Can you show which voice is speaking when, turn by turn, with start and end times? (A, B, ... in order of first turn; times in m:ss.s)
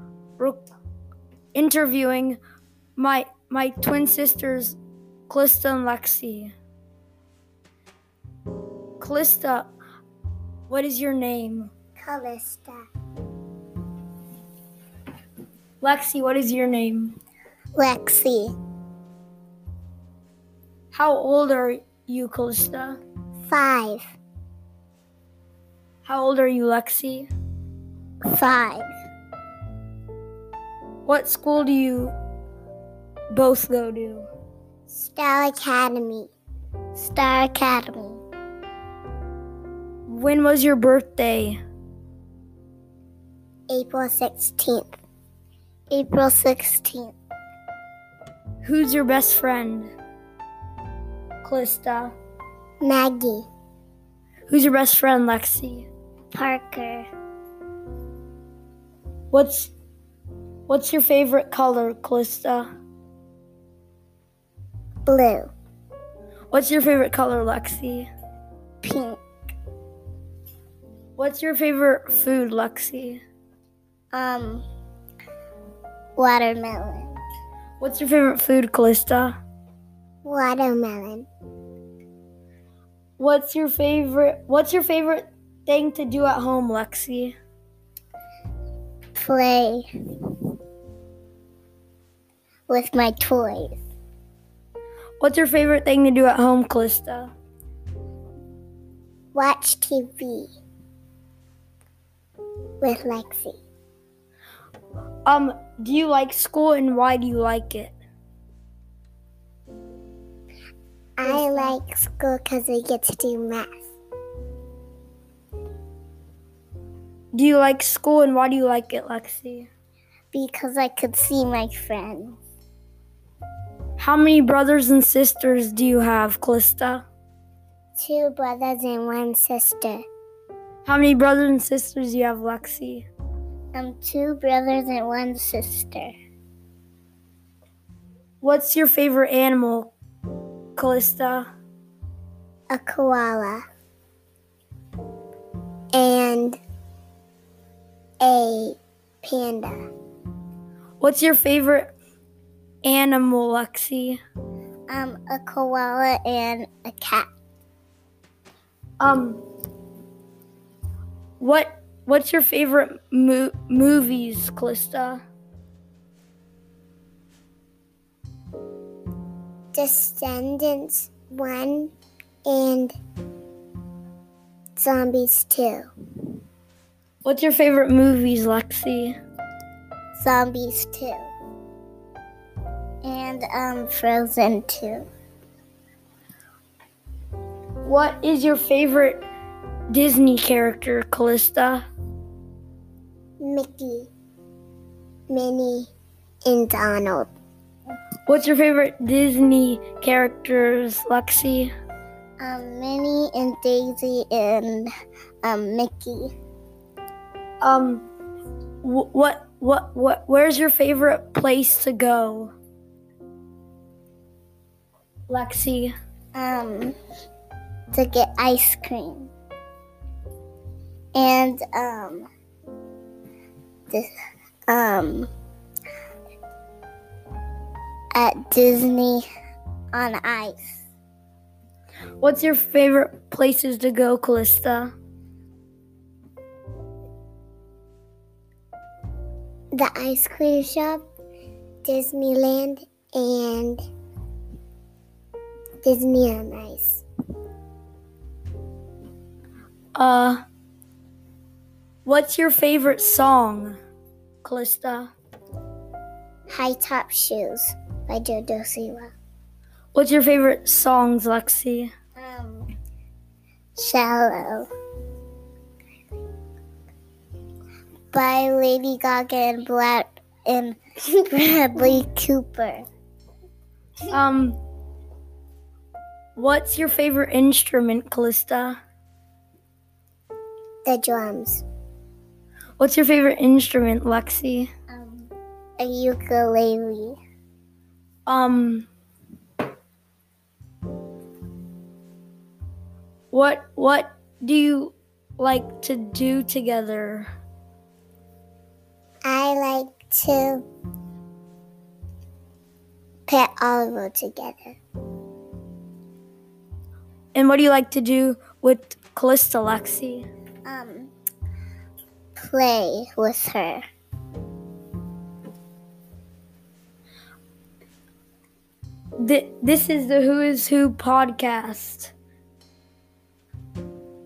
0:01.5-0:02.4 A
0:03.0-0:04.8 A
0:05.3-0:06.5 A
0:09.0-0:09.7 A
0:10.7-0:11.7 A
0:12.0-0:12.8 B
0:15.8-0:17.1 A
0:17.8-0:18.5 B
0:20.9-0:23.0 A
0:23.4-0:24.0 B
0:26.0-0:27.3 A
0:28.3-0:28.9 B
0:31.0-0:32.1 A
0:33.3-0:34.3 A
0:34.9-0:36.3 B
0:36.9-0:38.2 B
0:40.1-0:41.6 A
0:43.7-0:45.0 B
0:45.9-0:47.1 B
0:48.6-0:49.9 A
0:51.4-0:52.1 A
0:52.8-0:53.5 B
0:54.5-0:55.9 A
0:56.3-0:57.1 B
0:59.3-0:59.7 A
1:00.7-1:02.7 A
1:05.0-1:05.5 B
1:06.5-1:08.1 A
1:08.8-1:09.2 B
1:11.2-1:13.2 A
1:14.1-1:14.6 B
1:16.2-1:17.1 B
1:17.8-1:19.3 A
1:20.2-1:21.3 B
1:23.2-1:27.3 A
1:29.2-1:29.9 B
1:32.7-1:33.8 B
1:35.2-1:37.3 A
1:39.3-1:40.5 B
1:42.8-1:43.6 B
1:45.2-1:47.9 A
1:51.2-1:53.9 B
1:51.2-1:51.7 A
1:57.3-1:59.7 A
2:00.3-2:02.4 B
2:04.0-2:07.0 A
2:08.0-2:10.0 B
2:10.8-2:13.0 A
2:13.7-2:16.1 B
2:18.4-2:19.9 A
2:20.8-2:21.5 A
2:22.7-2:23.6 B
2:25.9-2:26.6 B
2:28.2-2:29.8 B
2:31.0-2:31.9 A
2:32.8-2:34.2 A
2:34.9-2:37.3 B
2:39.0-2:39.4 A
2:41.4-2:45.2 A
2:49.7-2:51.9 B
2:52.4-2:52.9 B
2:54.8-2:55.8 B
2:57.2-2:59.2 A
3:00.1-3:01.3 B
3:03.0-3:05.1 B
3:07.8-3:09.2 A
3:09.9-3:11.8 A
3:13.4-3:14.1 B
3:15.3-3:15.9 B
3:16.4-3:17.3 B
3:18.3-3:21.7 A
3:22.4-3:24.9 B
3:25.4-3:26.3 B
3:27.6-3:28.1 A
3:28.8-3:32.5 A
3:35.3-3:35.9 A
3:36.3-3:36.9 B
3:37.9-3:39.3 B
3:41.1-3:42.3 B
3:44.7-3:45.3 B
3:48.1-3:49.3 B
3:49.9-3:50.8 B
3:52.2-3:54.9 A
3:59.7-4:01.0 B
4:01.8-4:03.8 B
4:05.8-4:07.0 B
4:09.9-4:10.4 A
4:12.0-4:13.8 A
4:14.4-4:15.1 A
4:16.5-4:19.1 B
4:19.9-4:21.9 A
4:22.2-4:22.7 B
4:23.8-4:24.7 B
4:28.1-4:32.8 B
4:34.1-4:34.6 A
4:36.4-4:38.8 A
4:40.8-4:41.6 B
4:42.8-4:44.7 A
4:44.9-4:47.2 B
4:48.2-4:48.9 A
4:53.3-4:57.3 A
4:59.2-5:00.6 B
5:03.3-5:04.8 B
5:07.3-5:10.2 A
5:10.6-5:11.1 B
5:12.4-5:13.8 B
5:19.2-5:22.1 A